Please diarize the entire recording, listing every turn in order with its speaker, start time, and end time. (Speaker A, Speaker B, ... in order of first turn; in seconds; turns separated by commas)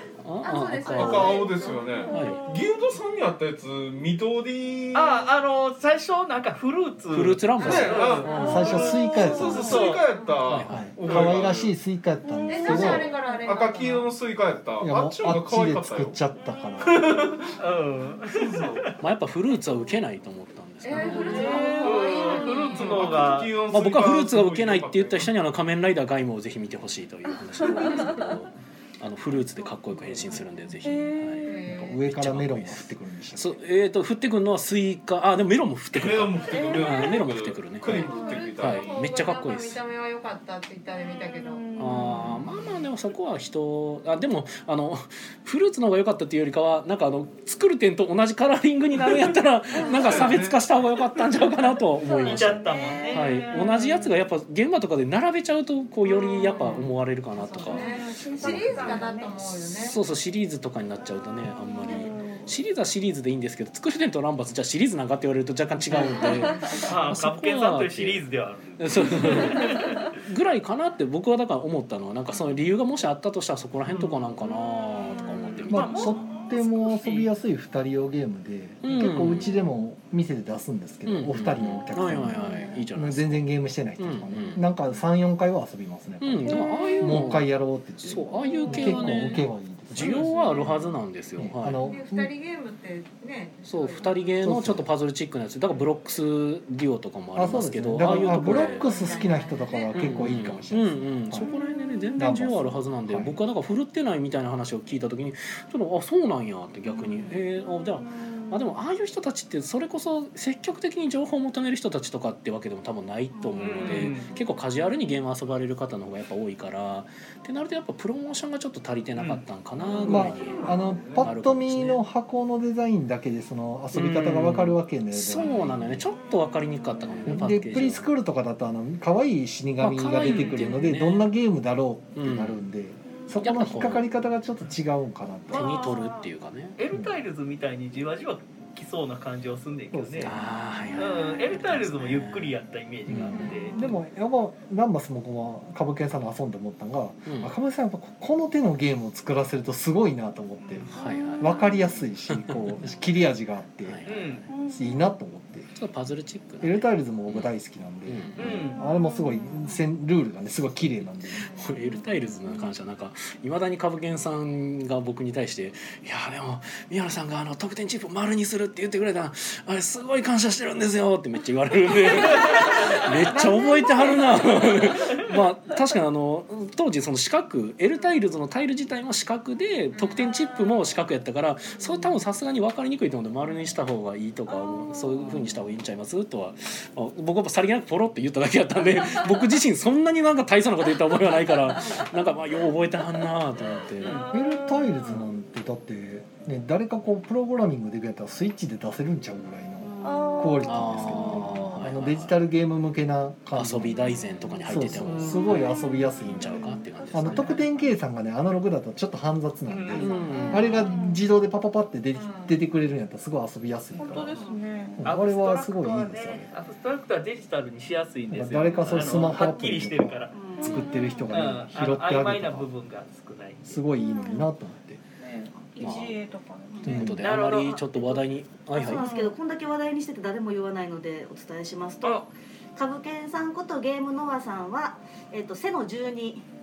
Speaker A: 0.2-1.4, Speaker B: 0.4-2.3, Speaker C: 0.9-5.3, Speaker D: 1.9-2.7, Speaker A: 2.1-2.4, Speaker E: 4.9-10.1, Speaker A: 7.1-8.8, Speaker C: 7.6-8.5, Speaker D: 8.2-9.9, Speaker F: 8.4-9.8, Speaker C: 9.1-11.7, Speaker A: 10.4-10.9, Speaker F: 10.7-13.1, Speaker D: 12.3-13.0, Speaker B: 12.5-14.1, Speaker C: 12.7-16.2, Speaker F: 14.8-17.1, Speaker C: 16.9-17.6, Speaker E: 17.6-18.9, Speaker C: 18.3-18.9, Speaker A: 19.0-21.6, Speaker B: 20.8-23.2, Speaker D: 21.0-22.8, Speaker E: 21.3-23.5, Speaker C: 21.8-22.2, Speaker C: 22.8-25.3, Speaker A: 23.7-39.8, Speaker D: 27.8-28.3, Speaker D: 30.8-31.7, Speaker B: 31.4-32.0, Speaker F: 31.7-33.6, Speaker C: 35.9-39.0, Speaker D: 36.5-37.1, Speaker D: 38.0-38.5, Speaker B: 38.1-41.7, Speaker D: 41.0-42.5, Speaker A: 41.8-59.0, Speaker D: 49.8-50.1, Speaker B: 49.8-50.2, Speaker C: 50.0-50.6, Speaker D: 52.0-54.1, Speaker E: 52.2-53.4, Speaker D: 56.1-56.9, Speaker B: 56.4-60.0, Speaker D: 57.6-59.5, Speaker A: 59.6-68.2, Speaker D: 61.7-62.5, Speaker B: 66.1-66.8, Speaker D: 66.1-66.4, Speaker E: 66.8-69.7, Speaker A: 68.8-76.2, Speaker F: 75.7-82.4, Speaker E: 75.7-77.3, Speaker A: 78.8-79.7, Speaker A: 81.1-84.7, Speaker D: 82.3-82.8, Speaker F: 82.9-90.2, Speaker A: 86.2-87.5, Speaker D: 86.5-87.4, Speaker A: 88.0-91.8, Speaker D: 88.4-89.3, Speaker B: 90.2-90.7, Speaker D: 90.3-90.8, Speaker F: 91.4-92.3, Speaker B: 91.8-94.4, Speaker A: 93.6-98.9, Speaker F: 94.4-94.9, Speaker F: 97.3-101.5, Speaker B: 98.0-100.2, Speaker A: 99.9-122.0, Speaker D: 101.4-102.0, Speaker F: 102.2-103.3, Speaker D: 107.0-107.4, Speaker D: 108.1-108.7, Speaker G: 113.4-114.1, Speaker D: 113.6-114.2, Speaker E: 113.6-114.3, Speaker E: 119.2-119.4, Speaker F: 120.0-126.0, Speaker C: 120.6-121.2, Speaker A: 123.9-128.1, Speaker F: 127.2-135.8, Speaker A: 129.8-131.3, Speaker E: 130.2-130.7, Speaker A: 132.1-132.6, Speaker A: 133.4-134.1, Speaker A: 135.5-136.8, Speaker D: 135.5-136.3, Speaker E: 136.8-140.3, Speaker F: 136.9-137.2, Speaker F: 139.9-140.4, Speaker A: 140.2-144.0, Speaker E: 140.9-143.8, Speaker D: 143.5-143.8, Speaker F: 143.7-155.7, Speaker A: 147.2-147.5, Speaker A: 150.9-151.7, Speaker D: 150.9-152.0, Speaker A: 152.3-152.9, Speaker A: 153.8-154.5, Speaker E: 154.1-154.4, Speaker D: 154.5-155.2, Speaker A: 155.7-157.5, Speaker F: 156.6-161.6, Speaker A: 158.1-158.7, Speaker E: 158.3-158.8, Speaker D: 158.7-159.7, Speaker A: 161.5-194.2, Speaker D: 173.3-174.9, Speaker B: 180.0-180.3, Speaker D: 184.6-185.3, Speaker E: 194.0-194.3, Speaker D: 194.0-195.2, Speaker F: 194.3-214.4, Speaker D: 200.0-201.9, Speaker A: 200.7-202.4, Speaker A: 203.5-207.6, Speaker D: 204.1-204.4, Speaker D: 205.2-206.8, Speaker G: 207.1-207.4, Speaker E: 209.7-210.1, Speaker A: 209.9-210.8, Speaker D: 210.2-211.2, Speaker G: 210.3-210.7, Speaker B: 212.2-212.5, Speaker D: 213.9-216.4, Speaker F: 214.9-216.5, Speaker E: 215.0-220.3, Speaker F: 218.3-222.7, Speaker D: 218.6-219.8, Speaker G: 220.3-220.8, Speaker D: 220.5-221.5, Speaker E: 221.3-223.8, Speaker F: 223.7-225.0, Speaker D: 224.0-224.5, Speaker D: 225.2-226.9, Speaker A: 225.8-226.2, Speaker A: 226.8-229.1, Speaker F: 226.8-227.3, Speaker E: 227.2-228.0, Speaker G: 228.7-236.4, Speaker D: 228.8-229.3, Speaker E: 232.0-232.3